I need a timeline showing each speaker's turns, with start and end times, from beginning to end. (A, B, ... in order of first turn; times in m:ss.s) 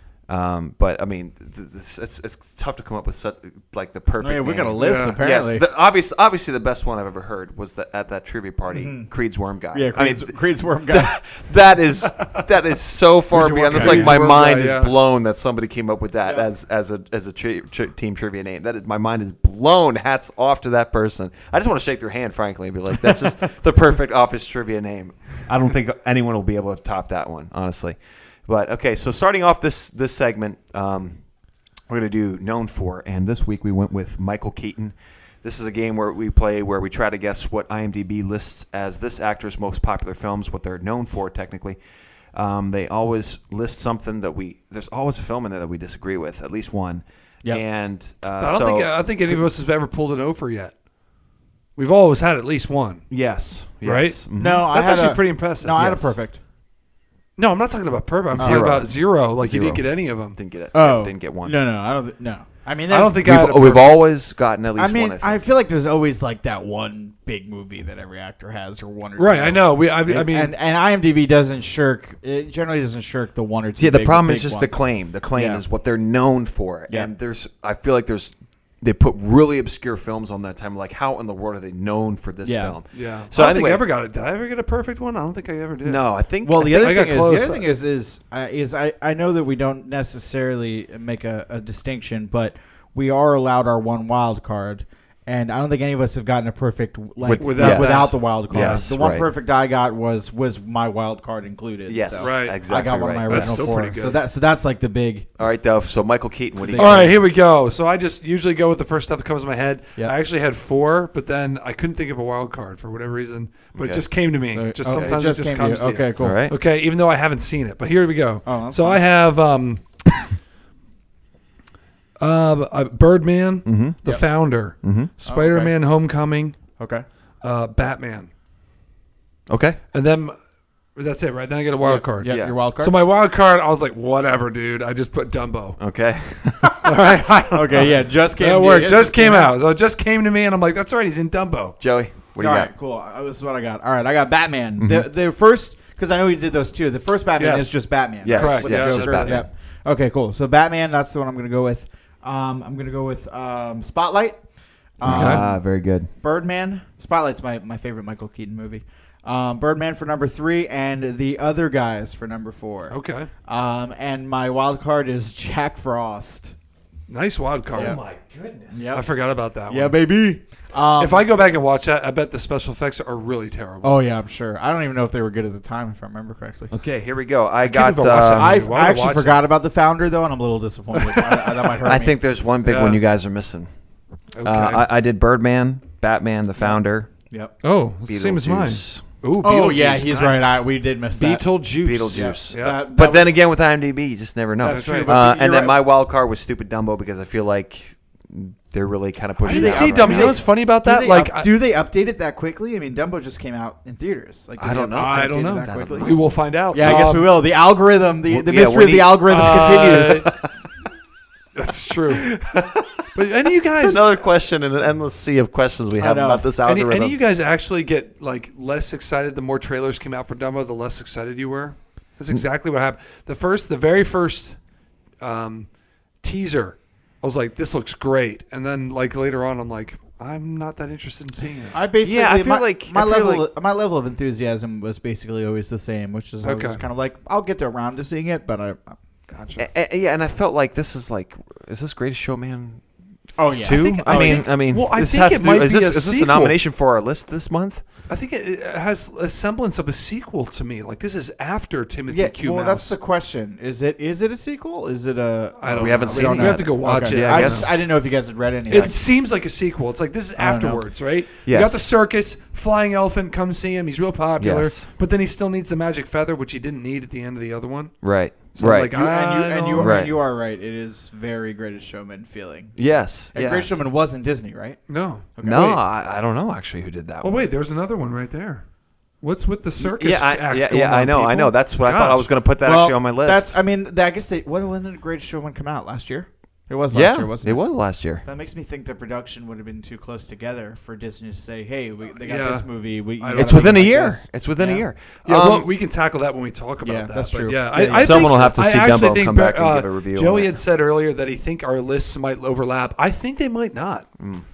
0:00.3-0:31.2 A
0:04.2-0:05.6 B
0:04.8-0:05.2 C
0:08.7-0:09.1 B
0:09.7-0:11.1 B
0:13.3-0:14.9 C
0:13.7-0:14.1 B
0:31.9-0:41.8 A
0:42.3-0:49.4 A
0:48.4-0:50.7 C
0:51.8-0:53.0 C
0:53.1-0:54.7 A
0:53.8-0:56.0 C
0:54.4-0:56.4 B
0:55.8-0:56.1 A
0:57.4-1:00.4 C
0:58.3-1:01.5 A
0:58.4-0:58.8 B
1:00.7-1:03.2 B
1:02.9-1:04.0 C
1:03.2-1:05.4 A
1:04.8-1:14.8 B
1:09.2-1:10.5 C
1:13.8-1:23.8 A
1:15.3-1:15.6 B
1:22.4-1:22.8 B
1:22.9-1:26.0 C
1:25.8-1:26.8 A
1:26.4-1:45.3 B
1:26.6-1:27.7 C
1:37.2-1:39.2 A
1:37.3-1:38.8 C
1:41.9-1:43.8 A
1:42.2-1:42.6 C
1:43.2-1:44.2 C
1:45.4-1:47.1 A
1:46.6-1:47.1 B
1:46.8-1:59.8 C
1:53.7-1:54.0 A
1:54.5-1:56.4 B
1:54.9-1:55.2 A
1:56.2-1:56.6 A
1:58.4-1:59.0 B
2:02.2-2:06.6 C
2:03.6-2:04.0 A
2:04.8-2:05.1 A
2:05.2-2:05.8 B
2:06.8-2:07.0 B
2:07.4-2:08.3 C
2:09.5-2:09.8 A
2:09.9-2:10.3 C
2:11.0-2:15.8 C
2:11.8-2:12.9 B
2:12.2-2:12.5 A
2:15.8-2:16.8 A
2:16.8-2:21.8 C
2:17.5-2:19.5 B
2:21.8-2:22.7 A
2:22.4-2:34.4 B
2:24.8-2:25.0 A
2:27.4-2:27.7 C
2:28.2-2:29.4 A
2:28.2-2:29.4 C
2:35.0-2:35.6 B
2:35.0-2:36.1 A
2:35.0-2:35.4 C
2:36.2-2:46.5 B
2:42.9-2:43.3 C
2:47.1-2:48.0 C
2:47.7-2:48.8 A
2:47.7-2:48.0 B
2:48.7-2:49.0 B
2:48.9-2:50.0 C
2:49.7-2:51.3 B
2:51.0-2:54.0 C
2:53.8-2:56.7 B
2:56.7-2:58.6 A
2:57.6-2:59.4 C
2:58.3-3:02.1 B
3:00.9-3:01.7 C
3:01.8-3:03.7 A
3:02.6-3:03.0 C
3:04.4-3:04.8 C
3:04.4-3:07.1 A
3:07.6-3:12.8 C
3:08.1-3:09.0 A
3:09.4-3:11.4 B
3:11.8-3:20.4 A
3:12.1-3:13.3 B
3:14.6-3:15.8 B
3:14.7-3:15.2 C
3:19.4-3:21.5 C
3:19.5-3:26.2 B
3:24.6-3:26.2 A
3:25.0-3:27.4 C
3:26.7-3:30.3 B
3:28.2-3:30.5 A
3:29.3-3:30.3 C
3:31.6-3:32.3 C
3:32.1-3:37.2 A
3:33.1-3:34.2 C
3:36.0-3:36.5 B
3:36.6-3:44.6 C
3:45.2-3:45.7 C
3:46.2-3:51.8 C
3:51.7-3:59.0 B
3:52.0-3:53.4 A
3:56.4-3:56.8 C
3:59.3-3:59.7 C
3:59.6-4:02.8 A
4:03.4-4:04.4 B
4:03.6-4:07.8 A
4:03.6-4:06.6 C
4:08.1-4:12.9 C
4:12.1-4:19.0 B
4:15.6-4:17.7 C
4:15.7-4:17.7 A
4:18.7-4:28.0 C
4:20.4-4:20.8 B
4:21.4-4:21.8 A
4:24.4-4:24.9 A
4:28.0-4:28.9 A
4:28.5-4:30.0 C
4:28.9-4:32.8 B
4:29.7-4:30.1 A
4:32.8-4:33.8 A
4:33.3-4:34.8 B
4:34.9-4:35.6 C
4:35.3-4:35.8 B
4:35.4-4:37.4 A
4:37.2-4:38.6 C
4:39.2-4:42.3 C
4:39.8-4:43.6 A
4:42.6-4:47.6 B
4:46.9-4:48.2 A
4:48.2-4:54.8 B
4:52.2-4:53.9 C
4:53.3-4:55.7 A
4:55.2-5:04.1 C
4:56.8-4:58.5 B
4:57.9-5:00.6 A
5:04.2-5:04.4 A